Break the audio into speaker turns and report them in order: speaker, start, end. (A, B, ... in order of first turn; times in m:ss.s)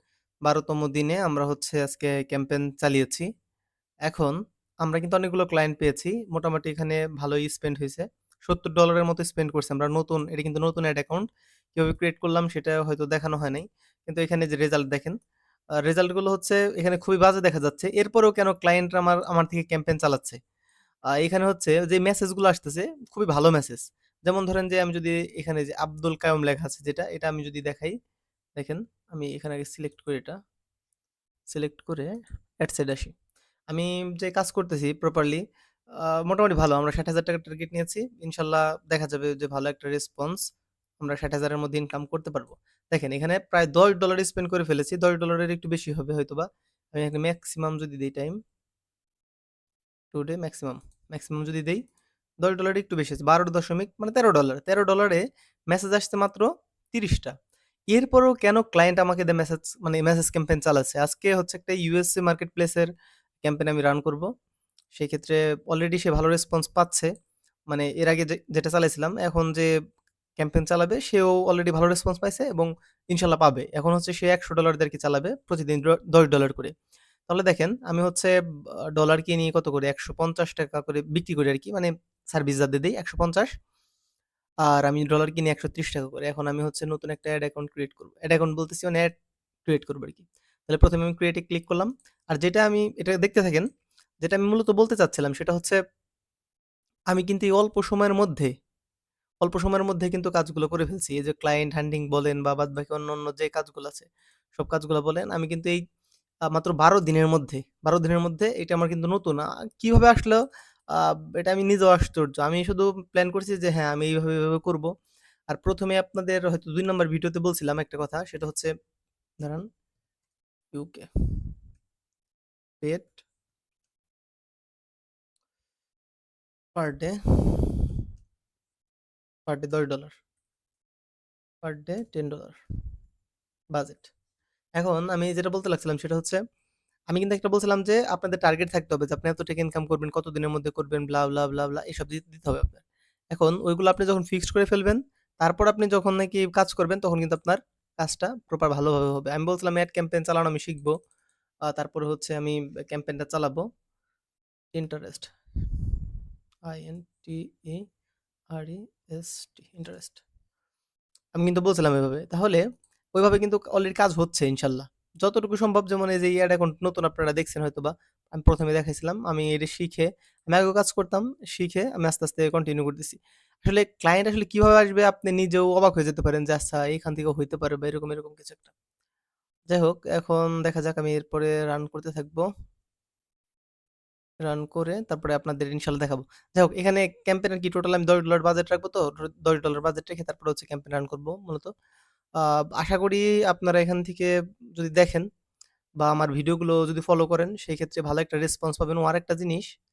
0:00.4-0:03.2 A
0:04.1-0:15.2 A
0:15.8-0:20.4 A
0:21.2-0:28.0 A
0:28.6-0:30.4 A
0:31.5-0:33.1 A
0:33.7-0:35.4 A
0:36.2-0:40.4 A
0:41.0-0:48.4 A
0:50.1-0:51.8 A
0:52.4-0:57.3 A
0:57.9-1:02.9 A
1:03.4-1:04.3 A
1:04.9-1:07.1 A
1:07.7-1:09.7 A
1:10.4-1:16.7 A
1:17.3-1:18.3 A
1:18.9-1:23.5 A
1:24.7-1:33.7 A
1:34.2-1:35.8 A
1:37.1-1:38.5 A
1:39.4-1:45.8 A
1:46.5-1:50.4 A
1:51.0-1:54.9 A
1:55.5-1:58.7 A
1:59.4-1:59.7 A
2:00.7-2:01.6 A
2:02.8-2:03.2 A
2:06.8-2:07.9 A
2:09.5-2:10.2 A
2:11.6-2:12.6 A
2:13.7-2:14.1 A
2:14.8-2:16.4 A
2:17.1-2:30.9 A
2:31.7-2:33.7 A
2:34.7-2:36.0 A
2:36.7-2:37.8 A
2:38.5-2:40.2 A
2:41.3-2:42.6 A
2:43.2-2:58.7 A
2:59.7-3:02.5 A
3:04.4-3:11.7 A
3:12.4-3:15.2 A
3:16.0-3:19.7 A